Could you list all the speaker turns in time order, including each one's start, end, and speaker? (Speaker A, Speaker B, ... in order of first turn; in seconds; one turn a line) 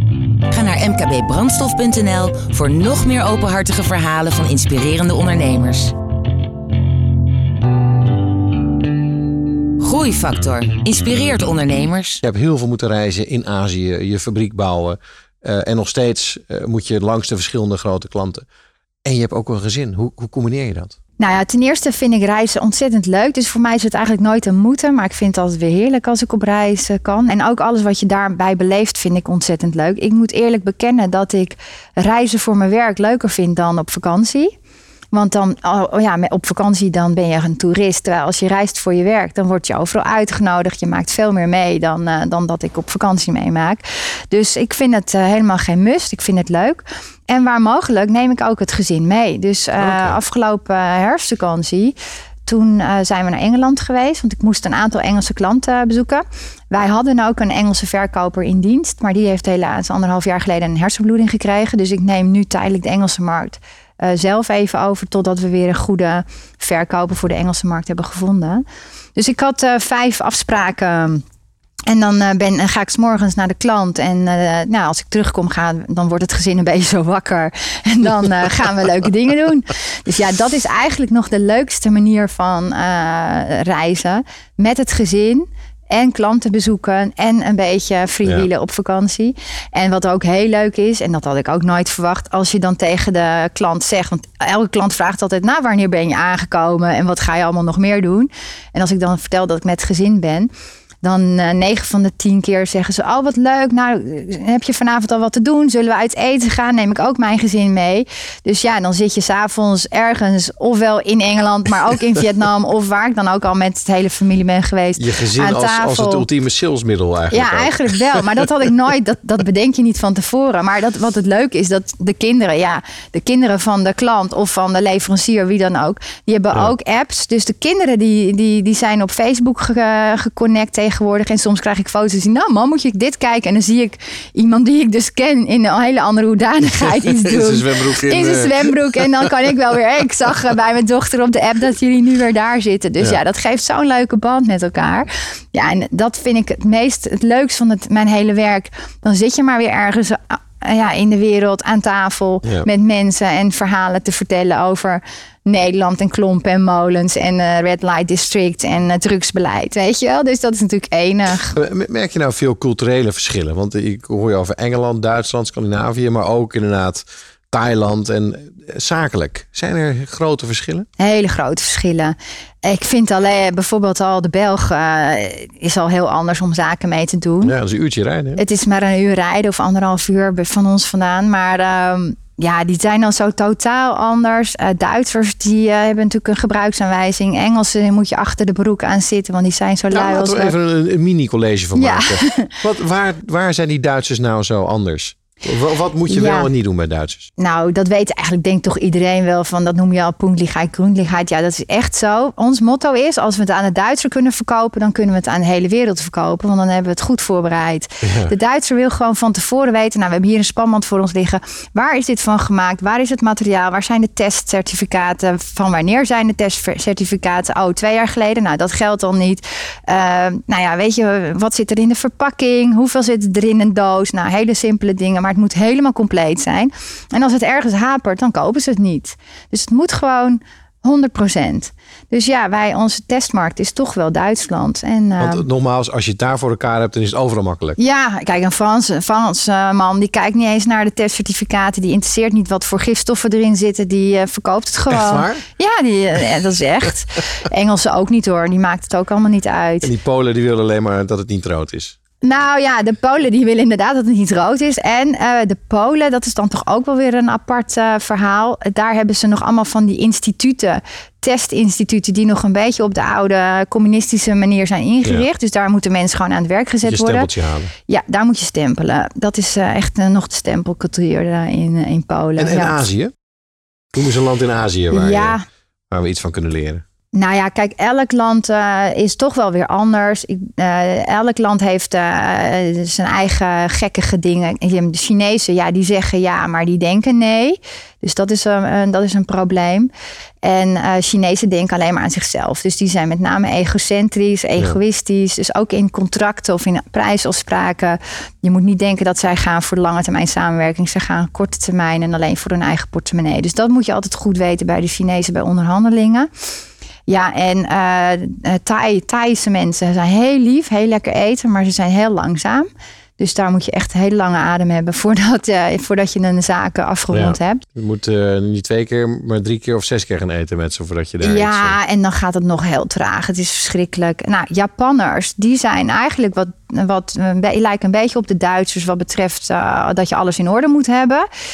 Speaker A: 0.5-5.9
Speaker A: 9.8-12.2
Speaker B: 12.2-18.4
Speaker B: 19.0-21.0
Speaker C: 21.2-34.5
Speaker C: 35.1-51.9
Speaker B: 49.8-50.2
Speaker C: 52.5-68.6
Speaker C: 69.2-71.2
Speaker C: 71.9-100.5
Speaker C: 101.0-116.2
Speaker B: 115.0-118.2
Speaker C: 117.3-161.6
Speaker B: 136.8-139.3
Speaker B: 161.5-170.9
Speaker C: 171.0-177.5
Speaker B: 177.4-178.4
Speaker C: 178.4-190.5
Speaker B: 189.9-197.3
Speaker C: 191.7-192.6
Speaker C: 196.1-196.5
Speaker C: 197.4-235.4
Speaker B: 208.0-208.3
Speaker B: 235.2-237.8
Speaker C: 237.8-249.9
Speaker B: 244.9-245.4
Speaker B: 249.8-251.9
Speaker C: 252.2-267.3
Speaker B: 266.8-267.7
Speaker C: 267.9-272.8
Speaker B: 272.4-273.1
Speaker B: 273.9-275.4
Speaker C: 274.9-275.4
Speaker B: 275.9-276.8
Speaker C: 277.1-289.9
Speaker C: 290.4-306.3
Speaker C: 307.1-312.7
Speaker C: 313.2-317.6
Speaker B: 317.1-321.8
Speaker C: 321.2-331.3